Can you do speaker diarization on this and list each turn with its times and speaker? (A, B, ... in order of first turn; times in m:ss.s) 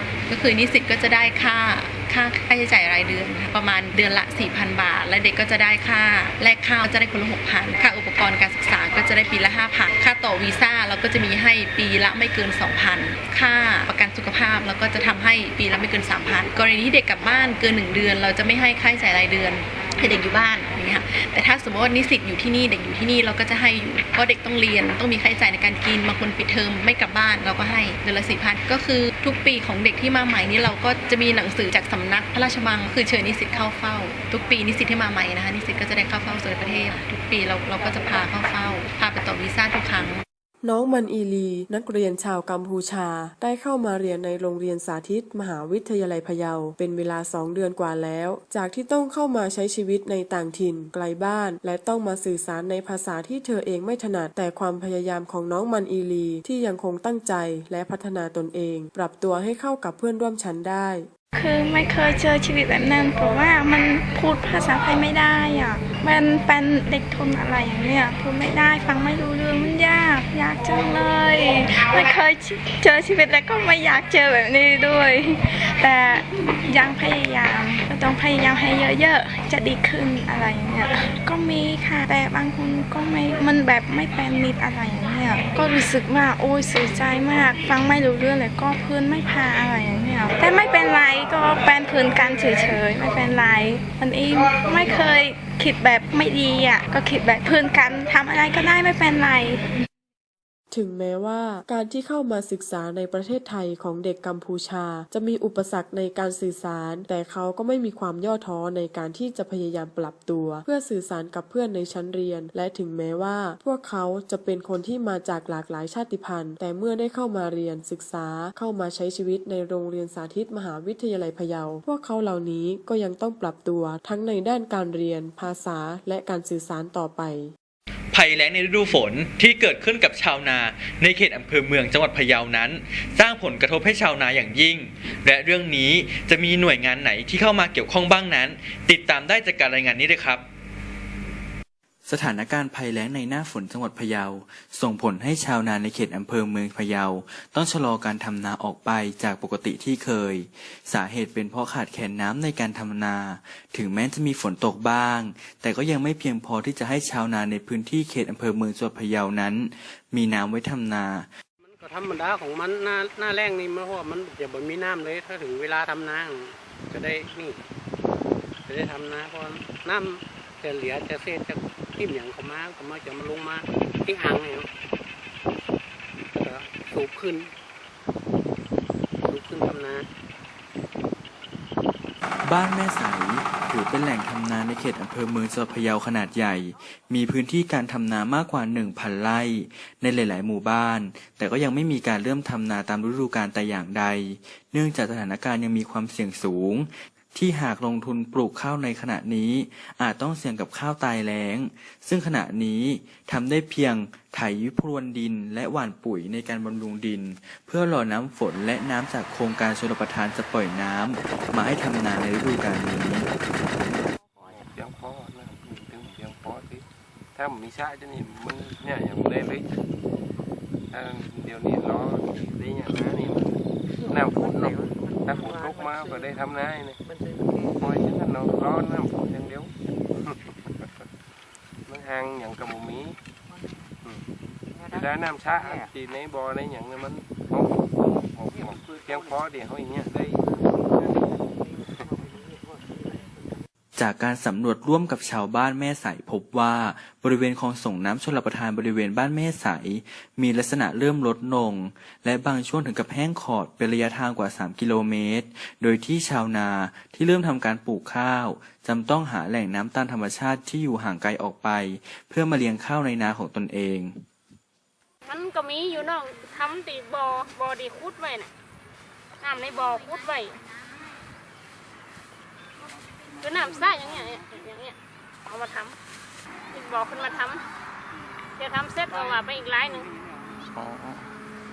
0:00.3-0:40.2 A
0:40.6-1:01.1 B
1:01.3-1:39.6 C
1:40.7-2:07.5 B
2:08.1-2:20.4 D
2:22.1-2:41.3 E
2:41.6-2:47.6 F
2:48.7-2:54.7 F
2:56.3-2:57.5 F
2:59.2-3:00.0 F
2:59.6-2:59.8 G
3:02.4-3:33.3 E
3:34.4-3:39.7 H
3:40.9-3:50.4 H
3:51.9-3:53.2 H
3:54.9-4:01.3 H
4:04.0-4:24.2 E
4:25.3-4:28.5 G
4:29.4-4:30.6 G
4:33.4-4:35.0 G
4:35.5-4:36.0 G
4:36.7-4:37.6 G
4:38.6-4:40.1 G